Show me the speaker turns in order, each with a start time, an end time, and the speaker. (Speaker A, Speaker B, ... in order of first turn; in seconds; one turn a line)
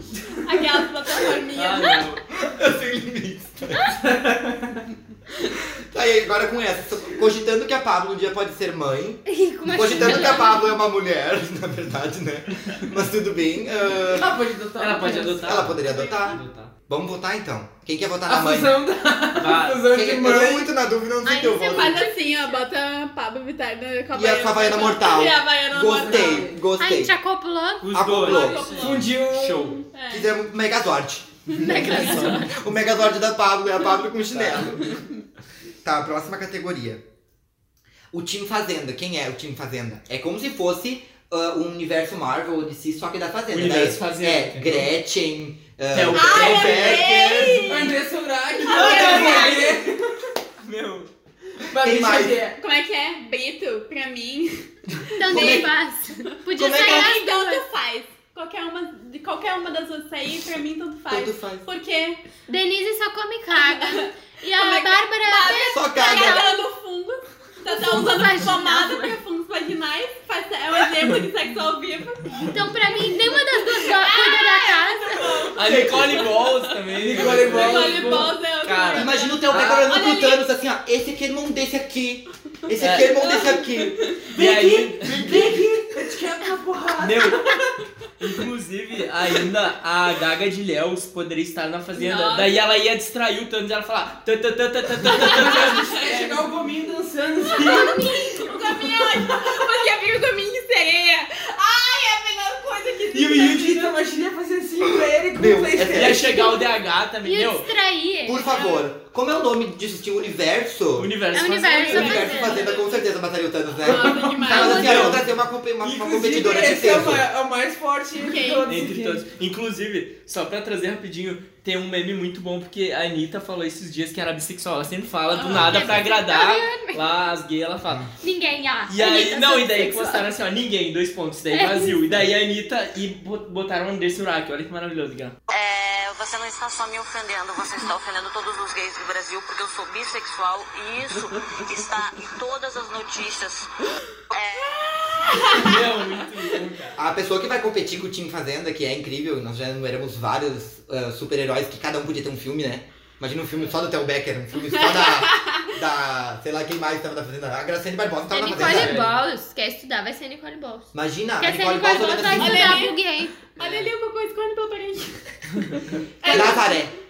Speaker A: 0.4-2.0
Speaker B: 1.5-2.2
Speaker C: 2.3-3.9
Speaker D: 4.0-4.8
Speaker C: 5.9-14.3
Speaker E: 9.2-10.8
Speaker D: 14.0-15.6
Speaker B: 14.8-16.7
Speaker C: 15.4-18.8
Speaker A: 15.8-16.4
Speaker D: 18.3-20.7
Speaker B: 19.3-19.9
Speaker C: 19.9-22.1
Speaker E: 21.2-22.6
Speaker A: 21.7-26.4
Speaker C: 24.1-27.1
Speaker D: 25.9-26.6
Speaker E: 26.8-27.9
Speaker B: 27.8-29.8
Speaker C: 27.9-28.7
Speaker A: 28.2-29.2
Speaker D: 28.7-29.8
Speaker A: 29.8-30.3
Speaker C: 30.1-35.0
Speaker B: 31.5-32.5
Speaker E: 31.5-32.5
Speaker B: 34.3-34.8
Speaker C: 35.8-37.0
Speaker C: 38.1-47.5
Speaker B: 43.5-44.9
Speaker B: 45.9-47.9
Speaker A: 46.1-48.0
Speaker D: 47.6-50.1
Speaker A: 48.6-49.7
Speaker B: 48.6-49.8
Speaker B: 50.6-51.1
Speaker D: 51.7-52.6
Speaker C: 51.8-52.4
Speaker A: 52.6-55.8
Speaker E: 55.2-57.6
Speaker C: 55.3-55.7
Speaker C: 56.6-57.1
Speaker A: 56.6-62.2
Speaker C: 61.1-61.6
Speaker E: 62.5-66.6
Speaker A: 63.5-80.4
Speaker C: 65.7-66.4
Speaker E: 67.7-69.2
Speaker E: 72.5-75.6
Speaker B: 75.5-79.8
Speaker D: 75.7-76.2
Speaker D: 77.0-78.3
Speaker C: 78.9-84.0
Speaker B: 82.8-83.1
Speaker A: 83.2-84.1
Speaker D: 84.3-87.7
Speaker B: 84.3-85.4
Speaker C: 85.1-85.9
Speaker B: 87.0-87.5
Speaker B: 88.2-96.6
Speaker A: 92.0-92.6
Speaker D: 95.1-98.1
Speaker A: 95.1-95.7
Speaker A: 97.5-103.9
Speaker E: 97.6-98.0
Speaker D: 103.1-106.2
Speaker C: 105.0-106.2
Speaker B: 105.9-107.7
Speaker E: 106.2-106.7
Speaker E: 107.2-108.6
Speaker C: 108.2-111.1
Speaker A: 108.5-108.8
Speaker B: 111.0-112.2
Speaker E: 111.3-112.7
Speaker A: 111.6-113.0
Speaker C: 111.8-117.2
Speaker A: 113.8-115.1
Speaker D: 113.8-115.1
Speaker E: 114.6-115.1
Speaker B: 114.7-115.2
Speaker D: 115.8-119.2
Speaker A: 118.2-118.7
Speaker B: 118.7-128.1
Speaker A: 125.3-125.8
Speaker E: 125.5-127.0
Speaker E: 128.2-130.3
Speaker B: 128.9-135.4
Speaker E: 131.5-132.0
Speaker F: 135.5-143.7
Speaker F: 144.3-144.9
Speaker A: 144.7-145.8
Speaker B: 145.5-147.0
Speaker C: 146.9-159.0
Speaker A: 154.7-155.7
Speaker E: 158.3-163.4
Speaker B: 158.5-159.2
Speaker C: 160.9-162.8
Speaker A: 162.3-166.9
Speaker B: 163.6-163.9
Speaker C: 166.2-166.9